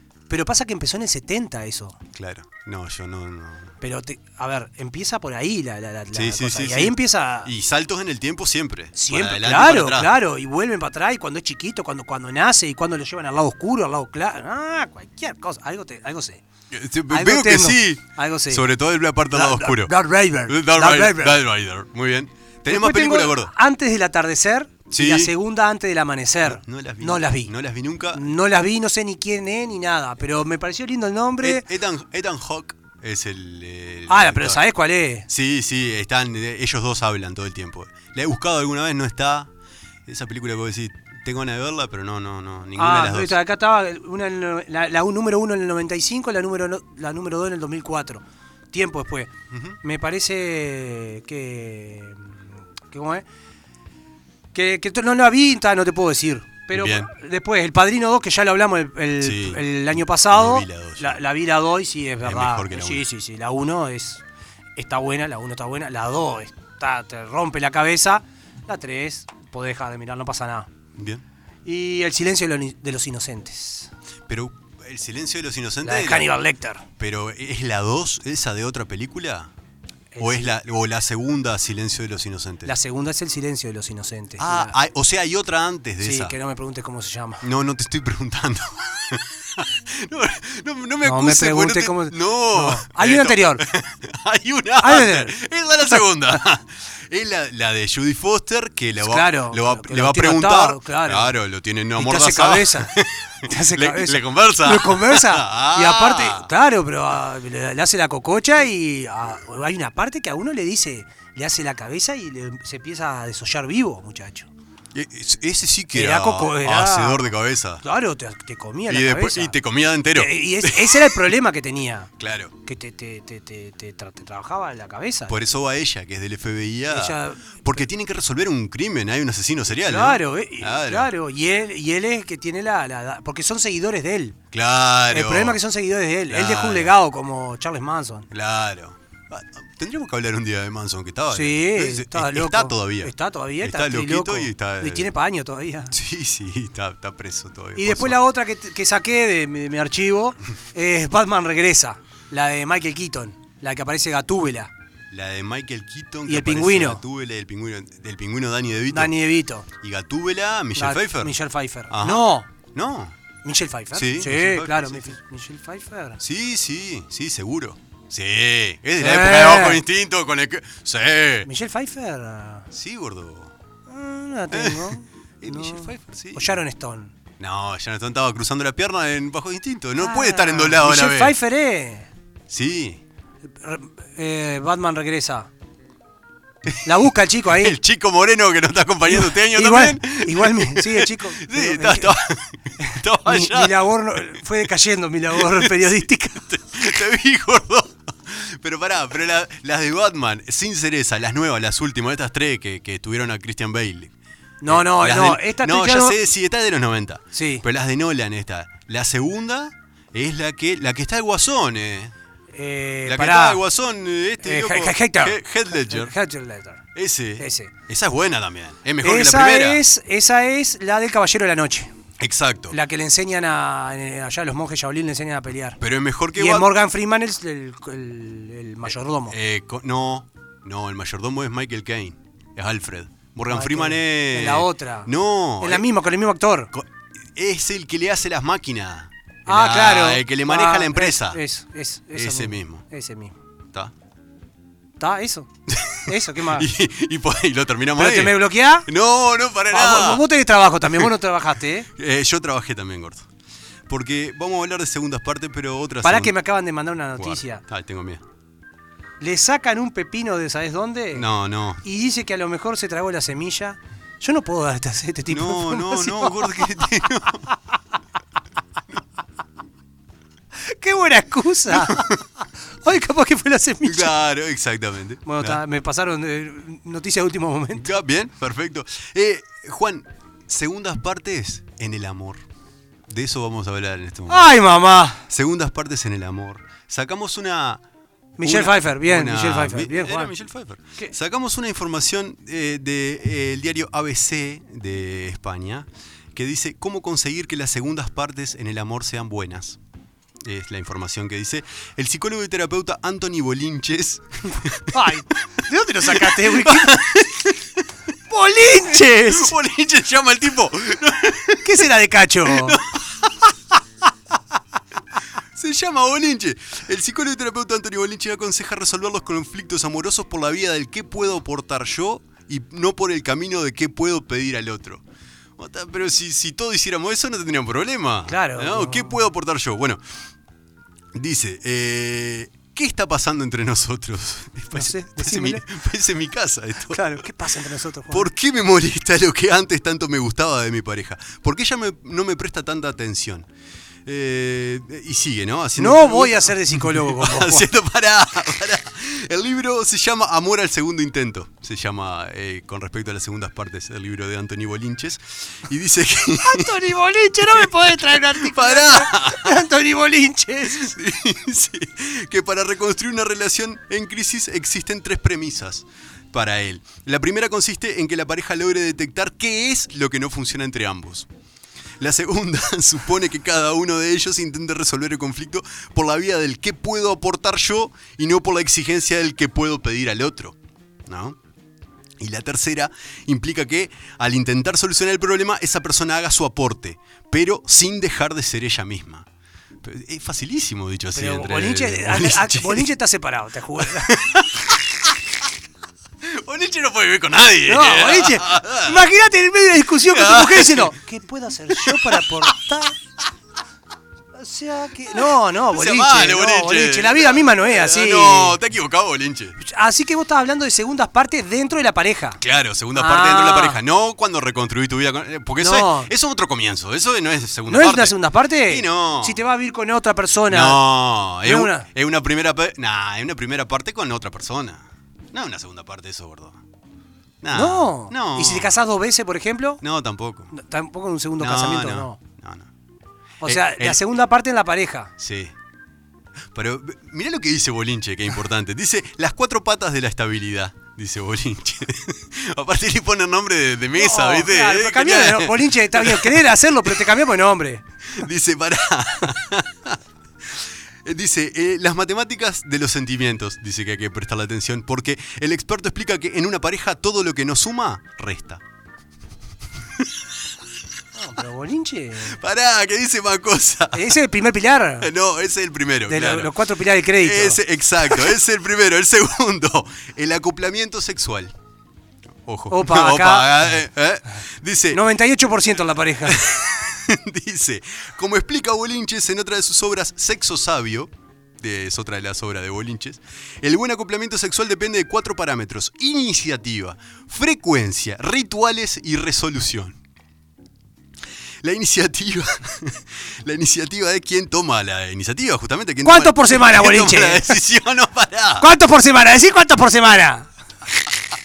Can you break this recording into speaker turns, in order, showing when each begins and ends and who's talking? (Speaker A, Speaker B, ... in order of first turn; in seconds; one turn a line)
Speaker A: 0.3-2.0
Speaker B: 2.1-3.7
Speaker A: 3.8-7.5
Speaker B: 6.1-10.1
Speaker A: 8.9-16.4
Speaker B: 16.7-19.9
Speaker A: 17.1-18.7
Speaker A: 19.3-21.4
Speaker B: 20.5-23.5
Speaker A: 22.7-27.5
Speaker B: 24.9-25.3
Speaker B: 26.4-28.2
Speaker A: 28.1-31.7
Speaker B: 31.4-34.6
Speaker A: 34.1-35.3
Speaker B: 35.3-39.5
Speaker B: 40.1-43.4
Speaker A: 42.8-49.3
Speaker B: 49.5-49.8
Speaker A: 49.8-53.2
Speaker A: 54.5-64.2
Speaker B: 56.7-57.1
Speaker B: 59.2-61.2
Speaker B: 62.2-63.0
Speaker A: 64.8-70.7
Speaker B: 71.0-71.2
Speaker A: 71.7-73.9
Speaker B: 74.3-76.3
Speaker A: 75.8-76.8
Speaker B: 77.0-79.5
Speaker A: 80.1-80.5
Speaker B: 80.2-82.7
Speaker A: 82.7-84.8
Speaker B: 84.4-86.4
Speaker A: 86.0-87.5
Speaker B: 87.4-106.5
Speaker A: 91.0-93.6
Speaker A: 94.8-95.3
Speaker A: 99.0-101.3
Speaker A: 102.0-114.5
Speaker B: 114.9-117.8
Speaker A: 115.9-119.6
Speaker B: 118.9-121.2
Speaker A: 120.2-122.1
Speaker B: 122.2-122.5
Speaker A: 122.7-125.3
Speaker B: 125.3-131.1
Speaker A: 126.9-127.8
Speaker A: 129.8-134.4
Speaker B: 134.5-135.6
Speaker A: 135.1-138.3
Speaker B: 136.3-136.9
Speaker B: 138.3-145.1
Speaker A: 141.3-145.9
Speaker B: 145.9-148.2
Speaker A: 147.8-154.7
Speaker B: 155.1-159.2
Speaker A: 156.3-157.0
Speaker A: 158.9-159.7
Speaker B: 159.8-161.4
Speaker A: 160.8-162.5
Speaker B: 161.9-163.2
Speaker A: 163.4-166.2
Speaker B: 163.9-165.2
Speaker B: 166.2-171.5
Speaker A: 169.0-169.8
Speaker A: 171.4-172.7
Speaker B: 172.7-173.5
Speaker A: 173.9-177.1
Speaker B: 174.5-176.6
Speaker B: 177.4-181.4
Speaker A: 180.0-182.1
Speaker B: 182.5-183.0
Speaker A: 183.6-185.5
Speaker A: 186.8-187.8
Speaker B: 187.5-194.0
Speaker A: 189.1-192.1
Speaker A: 192.8-196.4
Speaker B: 195.3-204.1
Speaker A: 204.6-206.2
Speaker B: 204.7-212.1
Speaker A: 207.3-207.6
Speaker A: 212.5-213.6
Speaker B: 213.1-216.1
Speaker A: 214.4-216.8
Speaker B: 216.9-219.8
Speaker A: 217.4-217.7
Speaker A: 219.0-221.9
Speaker B: 222.2-222.8
Speaker A: 222.7-225.8
Speaker B: 225.8-226.7
Speaker A: 226.3-229.3
Speaker B: 229.3-235.9
Speaker A: 233.5-236.7
Speaker B: 236.7-241.4
Speaker A: 239.5-243.3
Speaker B: 242.1-242.8
Speaker A: 245.0-245.5
Speaker B: 245.7-250.2
Speaker A: 246.1-246.7
Speaker A: 248.0-248.9
Speaker A: 249.7-251.9
Speaker B: 252.0-253.3
Speaker B: 253.9-256.3
Speaker A: 256.0-257.6
Speaker B: 257.2-258.2
Speaker A: 259.2-261.3
Speaker B: 261.1-261.8
Speaker A: 261.8-266.8
Speaker B: 265.3-267.5
Speaker A: 270.7-272.1
Speaker B: 271.7-272.2
Speaker A: 272.8-274.1
Speaker B: 273.8-275.6
Speaker A: 275.3-277.9
Speaker B: 277.7-282.4
Speaker B: 283.1-284.5
Speaker A: 284.3-285.2
Speaker B: 285.3-287.8
Speaker A: 288.4-290.4
Speaker B: 288.4-299.8
Speaker B: 300.4-305.0
Speaker A: 304.9-307.0
Speaker B: 306.1-307.8
Speaker A: 308.3-309.5
Speaker B: 308.9-311.9
Speaker A: 311.6-312.8
Speaker B: 312.4-313.4
Speaker B: 315.5-325.0
Speaker B: 325.6-330.0
Speaker A: 328.3-329.2
Speaker B: 331.1-337.2
Speaker A: 334.7-335.6
Speaker A: 336.9-338.3
Speaker B: 338.1-343.5
Speaker B: 344.1-356.9
Speaker A: 345.8-347.7
Speaker A: 356.4-361.0
Speaker B: 357.5-359.6
Speaker B: 360.7-371.3
Speaker B: 372.0-381.4
Speaker B: 382.2-389.3
Speaker B: 389.8-392.9
Speaker A: 391.1-394.2
Speaker B: 393.8-395.1
Speaker B: 396.2-399.1
Speaker A: 397.7-402.9
Speaker B: 400.1-401.0
Speaker B: 401.7-402.6
Speaker A: 404.4-408.6
Speaker B: 405.7-409.6
Speaker A: 409.6-412.4
Speaker B: 412.4-419.4
Speaker A: 412.9-413.8
Speaker A: 415.6-416.1
Speaker A: 417.7-420.8
Speaker B: 420.5-426.6
Speaker A: 421.4-421.9
Speaker B: 427.4-428.8
Speaker A: 427.5-429.8
Speaker B: 429.8-430.5
Speaker A: 430.5-432.2
Speaker B: 431.4-432.7
Speaker A: 433.4-435.1
Speaker B: 433.4-434.0
Speaker B: 435.2-435.6
Speaker B: 436.5-446.9
Speaker A: 444.0-447.8
Speaker B: 448.1-450.0
Speaker B: 450.5-458.6
Speaker A: 461.1-462.4
Speaker B: 462.3-464.2
Speaker A: 463.9-465.1
Speaker B: 465.0-466.6
Speaker A: 466.1-467.6
Speaker B: 467.2-471.5
Speaker B: 472.4-475.0
Speaker A: 472.7-473.7
Speaker A: 474.9-476.4
Speaker B: 476.3-490.0
Speaker B: 491.6-498.7
Speaker A: 496.0-497.6
Speaker A: 498.6-500.5